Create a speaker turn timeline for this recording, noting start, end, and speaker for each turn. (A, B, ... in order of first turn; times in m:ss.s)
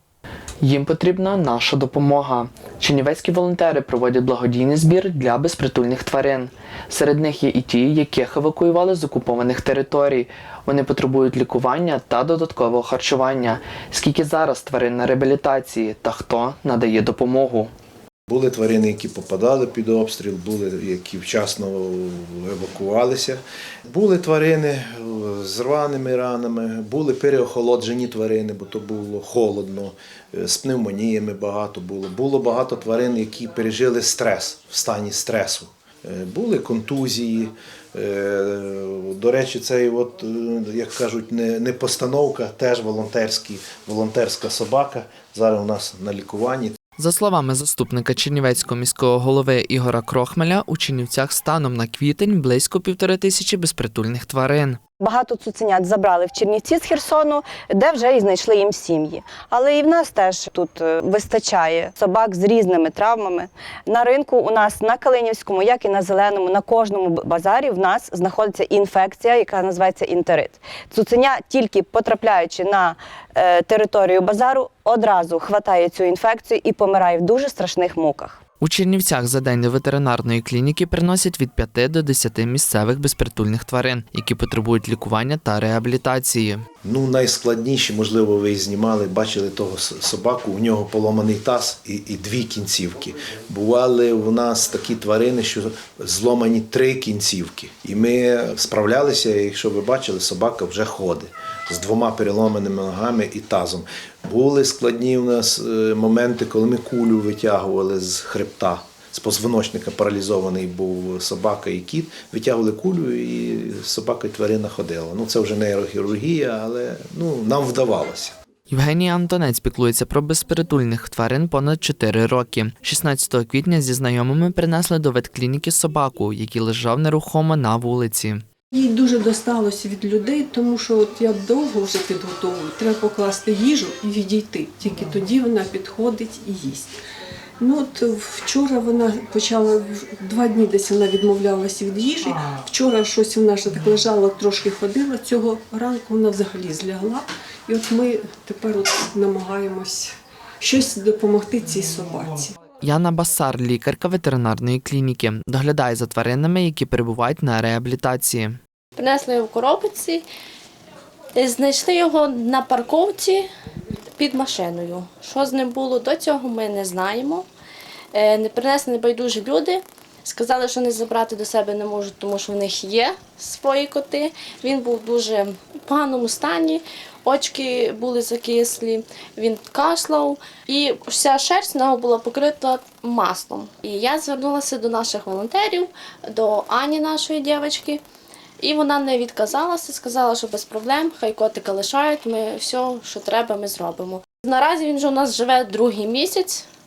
0:00.6-0:17.7 A
0:18.3-0:46.8 B
0:47.0-0:54.8 A
0:55.0-1:18.4 C
1:18.6-1:26.6 A
1:26.8-1:58.3 B
1:58.7-2:08.4 A
2:08.7-2:16.9 D
2:17.6-2:32.5 D
2:32.8-2:38.6 A
2:39.0-2:40.2 E
2:41.4-2:43.5 E
2:44.2-2:47.5 E
2:48.1-3:08.0 E
3:08.6-3:16.7 E